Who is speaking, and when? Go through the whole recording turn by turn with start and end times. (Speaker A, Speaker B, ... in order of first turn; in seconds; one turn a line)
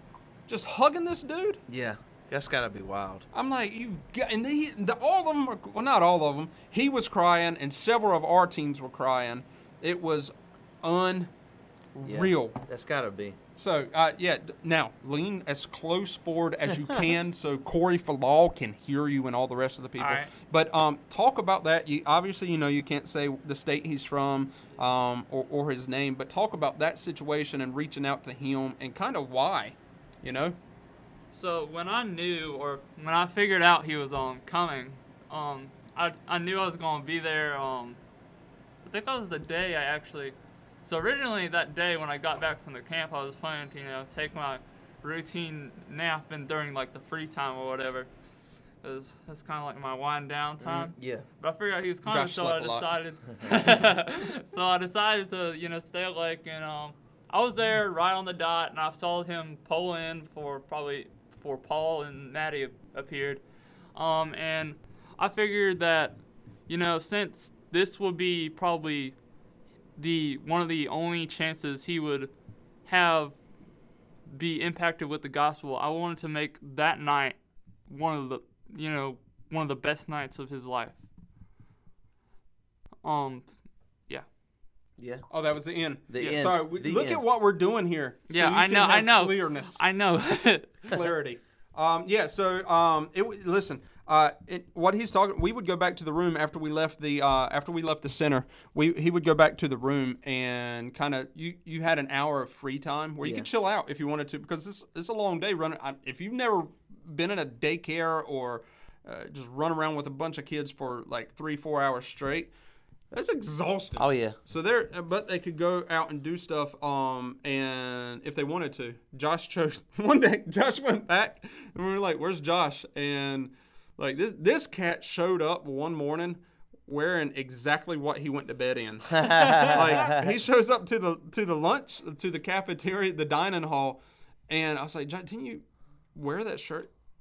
Speaker A: 0.5-1.6
Speaker B: 1.7-3.2
Speaker A: 3.3-11.3
Speaker A: 11.9-12.6
Speaker B: 12.0-13.4
Speaker A: 13.6-30.6
Speaker C: 20.0-20.3
Speaker C: 31.3-38.0
Speaker C: 38.8-48.1
Speaker C: 48.8-63.4
Speaker B: 50.6-51.2
Speaker A: 52.0-52.9
Speaker C: 63.9-69.2
Speaker C: 70.0-72.3
Speaker C: 72.8-73.4
Speaker C: 74.3-81.0
Speaker C: 83.0-83.5
Speaker B: 85.0-85.2
Speaker A: 85.3-89.8
Speaker B: 86.1-87.2
Speaker C: 88.3-90.9
Speaker A: 90.9-112.5
Speaker B: 103.2-103.5
Speaker A: 113.1-134.0
Speaker B: 114.0-114.3
Speaker B: 129.1-130.2
Speaker C: 129.2-130.1
Speaker A: 134.5-136.9